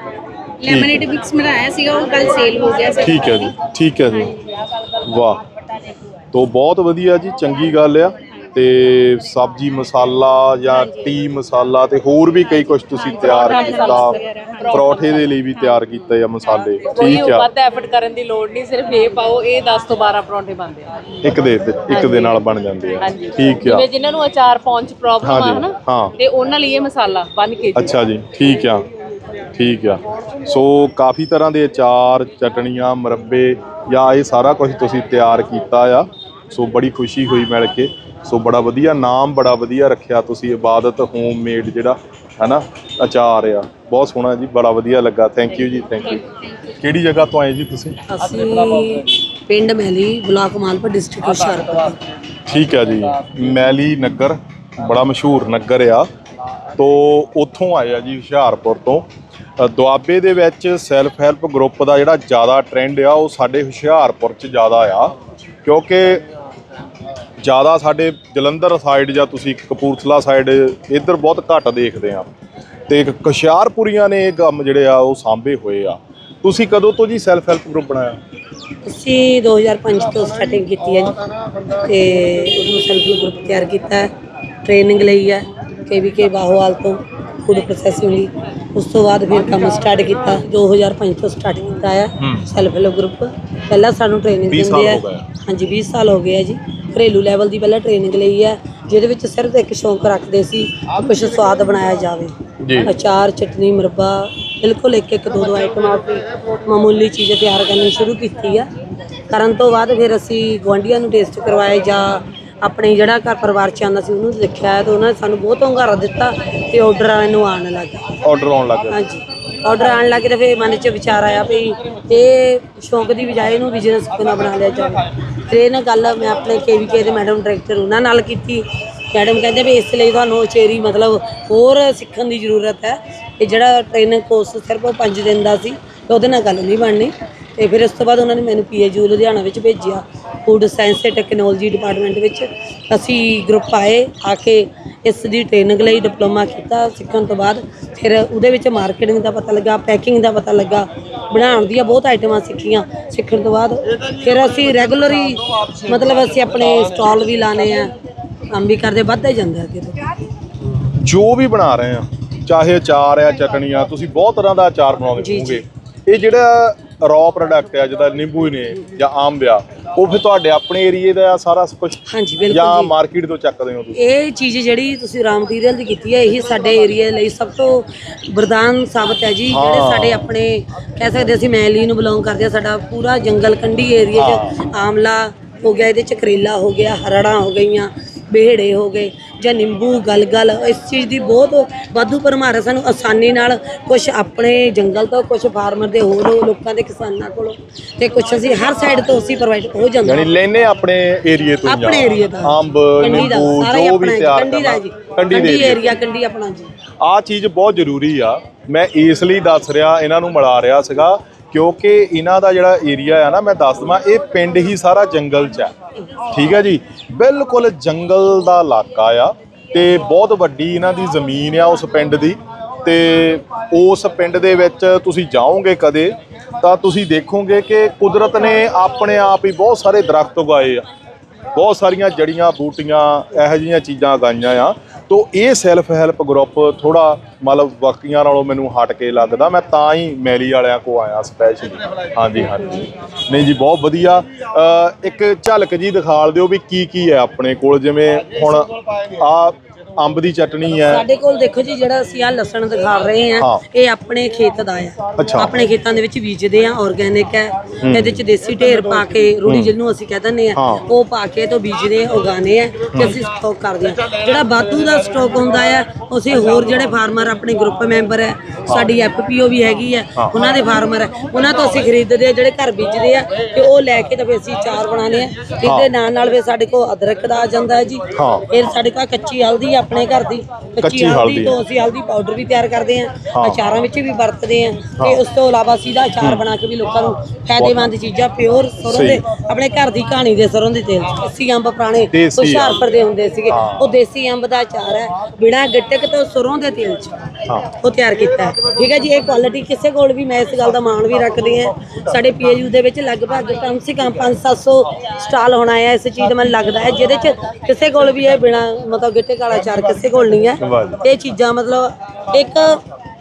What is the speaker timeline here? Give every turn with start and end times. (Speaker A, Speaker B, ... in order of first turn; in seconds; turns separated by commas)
Speaker A: 0.6-3.5, Speaker B: 0.6-1.1, Speaker B: 3.0-4.4, Speaker B: 5.0-5.4, Speaker B: 6.3-14.2, Speaker A: 10.7-11.1, Speaker A: 13.0-15.8, Speaker C: 13.1-15.3, Speaker B: 14.7-17.5, Speaker C: 16.9-20.9, Speaker B: 21.2-23.9, Speaker C: 21.9-22.4, Speaker C: 23.0-28.0, Speaker B: 25.2-26.1, Speaker B: 27.8-28.9, Speaker B: 29.6-48.0, Speaker D: 48.1-52.0, Speaker B: 52.5-56.1, Speaker B: 56.8-66.2, Speaker B: 67.4-72.3, Speaker B: 72.9-78.2, Speaker D: 78.8-81.2, Speaker D: 81.7-84.1, Speaker D: 84.7-108.7, Speaker B: 92.2-92.5, Speaker B: 94.5-95.2, Speaker B: 102.6-102.9, Speaker D: 109.3-118.1, Speaker B: 118.2-119.0, Speaker D: 118.9-157.9, Speaker D: 158.5-160.1, Speaker B: 161.0-174.0, Speaker D: 165.2-165.6, Speaker D: 172.1-172.9, Speaker D: 174.0-200.3, Speaker B: 179.5-180.3, Speaker B: 184.2-184.5, Speaker B: 200.0-205.9, Speaker D: 201.7-206.7, Speaker B: 207.0-215.7, Speaker B: 216.3-230.8, Speaker B: 231.6-251.1, Speaker D: 250.9-312.8, Speaker B: 255.2-255.6, Speaker B: 257.8-258.2, Speaker B: 259.5-259.7, Speaker B: 260.6-260.8, Speaker B: 262.9-263.2, Speaker B: 268.7-268.9, Speaker B: 275.6-275.9, Speaker B: 278.1-278.5, Speaker B: 280.8-281.6, Speaker B: 283.3-283.6, Speaker B: 286.2-286.5, Speaker B: 287.6-287.9, Speaker B: 288.9-289.2, Speaker B: 292.1-292.8, Speaker B: 293.5-294.0, Speaker B: 310.6-311.0